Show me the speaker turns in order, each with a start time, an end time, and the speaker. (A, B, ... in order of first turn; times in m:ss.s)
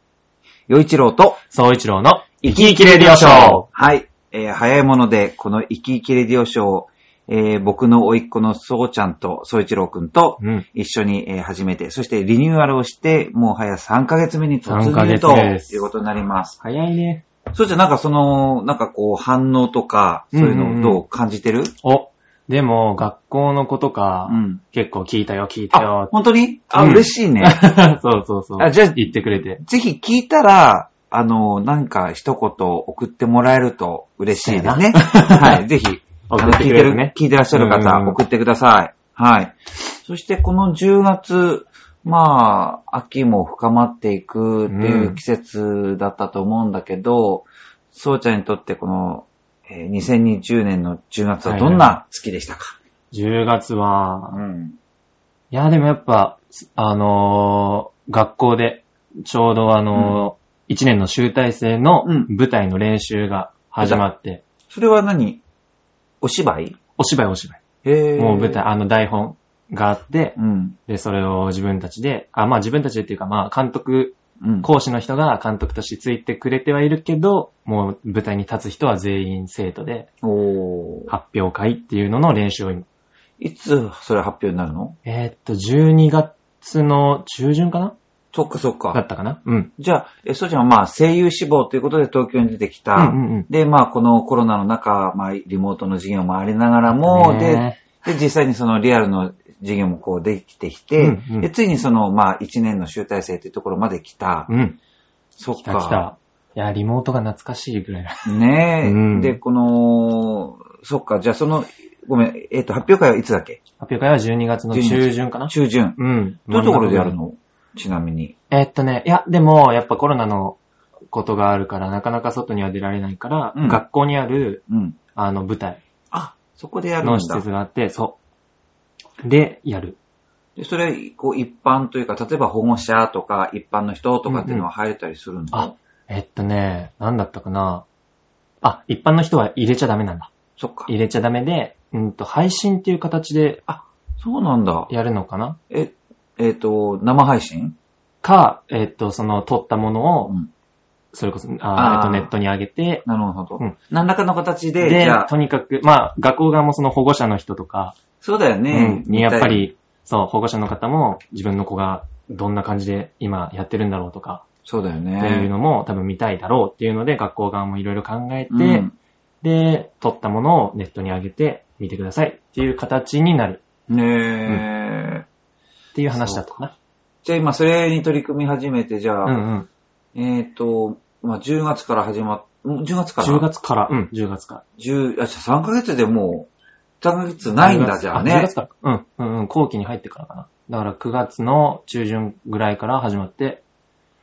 0:00.7-0:01.4 A
0:01.5-0:03.7 B
0:02.4-0:16.6 A
0:10.4-0:10.6 B
0:14.6-0:15.9 B
0:16.6-0:17.2 B
0:17.5-0:21.7 A
0:20.3-0:21.0 B
0:21.8-0:26.1 B
0:24.3-0:24.6 A
0:25.7-0:27.6 A
0:26.7-0:29.6 B
0:28.6-0:29.1 A
0:29.6-0:52.8 A
0:34.3-0:35.6 B
0:36.3-0:38.2 B
0:44.7-0:45.2 B
0:51.4-0:52.0 B
0:53.1-0:54.4 B
0:54.3-0:54.8 A
0:55.5-1:04.4 B
0:59.9-1:00.2 A
1:02.0-1:02.3 A
1:04.7-1:05.4 A
1:06.2-1:06.8 A
1:07.0-1:07.6 B
1:07.8-1:08.6 A
1:08.2-1:20.1 B
1:10.4-1:10.8 A
1:14.4-1:14.7 A
1:20.2-1:21.1 A
1:21.1-1:22.8 B
1:23.4-1:25.0 A
1:25.0-1:28.0 B
1:28.3-1:29.0 A
1:28.9-1:29.7 B
1:29.8-1:44.5 A
1:33.0-1:33.5 B
1:36.9-1:37.8 B
1:41.0-1:41.5 B
1:44.5-1:44.8 B
1:45.4-1:46.0 A
1:45.5-1:49.4 B
1:48.2-1:53.6 A
1:53.8-1:57.2 B
1:54.7-1:56.0 A
1:56.5-1:58.3 A
1:58.5-2:00.6 B
2:01.1-2:04.6 B
2:03.5-2:03.8 A
2:04.7-2:05.0 A
2:05.1-2:05.8 B
2:06.1-2:07.4 A
2:07.0-2:08.2 B
2:09.2-2:10.0 B
2:10.6-2:15.7 A
2:14.3-2:14.7 B
2:15.5-2:17.8 B
2:18.6-2:20.3 B
2:20.6-2:20.9 A
2:20.9-2:23.7 B
2:23.7-2:24.9 A
2:24.9-2:25.6 B
2:25.7-2:27.8 A
2:28.2-2:30.4 B
2:31.1-2:33.0 B
2:31.7-2:32.3 A
2:33.0-2:35.3 A
2:34.8-2:38.0 B
2:38.2-2:39.7 A
2:38.7-2:44.4 B
2:44.6-2:45.5 A
2:45.2-2:48.9 B
2:48.5-2:48.9 A
2:49.4-2:53.6 B
2:53.9-2:55.2 A
2:55.9-2:56.7 B
2:56.1-2:56.6 A
2:57.2-2:59.4 A
2:59.2-2:59.7 B
3:00.1-3:03.5 A
3:03.2-3:04.6 B
3:04.8-3:06.5 A
3:07.0-3:08.5 A
3:07.6-3:13.6 B